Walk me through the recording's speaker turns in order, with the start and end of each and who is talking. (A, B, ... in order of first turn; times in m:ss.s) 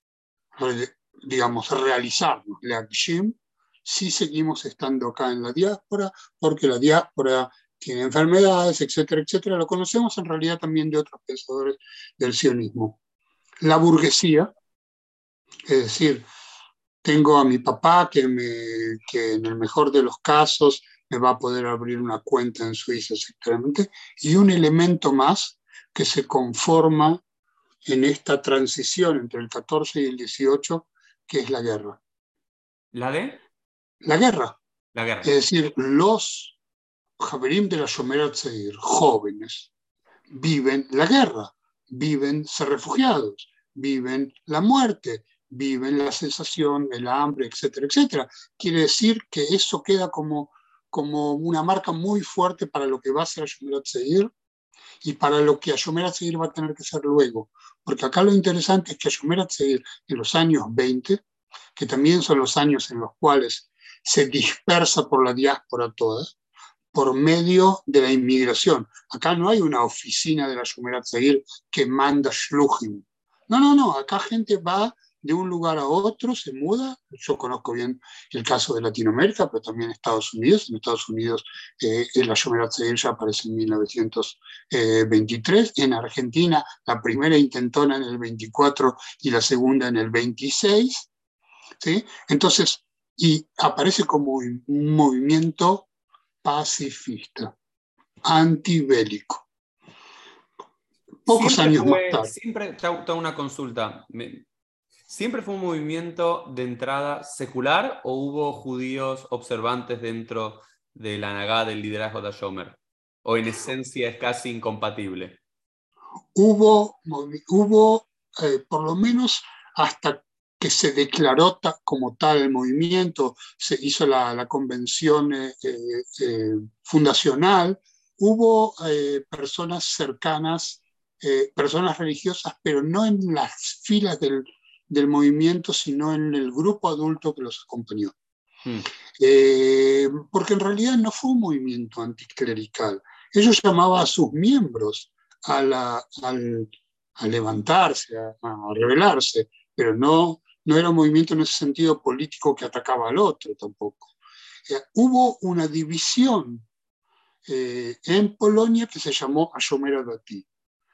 0:00.6-0:13.0 A
0:13.6-0:14.5 A
0:15.7-0:16.3 A
0:17.0-0:27.2 A
0:27.8-0:32.0 A
0:32.9-0:33.4 B
0:34.0-0:34.6 A
0:34.9-0:35.3 B
0:35.2-0:36.6 A
0:37.2-0:39.7 A
0:40.3-0:54.3 A
0:55.0-1:01.2 A
1:01.8-1:06.3 A
1:06.9-1:31.1 A
1:31.8-1:35.9 A
1:36.4-1:37.6 A
1:38.2-1:39.5 A
1:41.3-1:42.3 A
1:41.3-1:44.4 B
1:45.1-1:55.4 B
1:56.4-2:18.2 A
2:19.2-2:34.1 A
2:34.7-2:36.7 A
2:37.4-2:40.5 A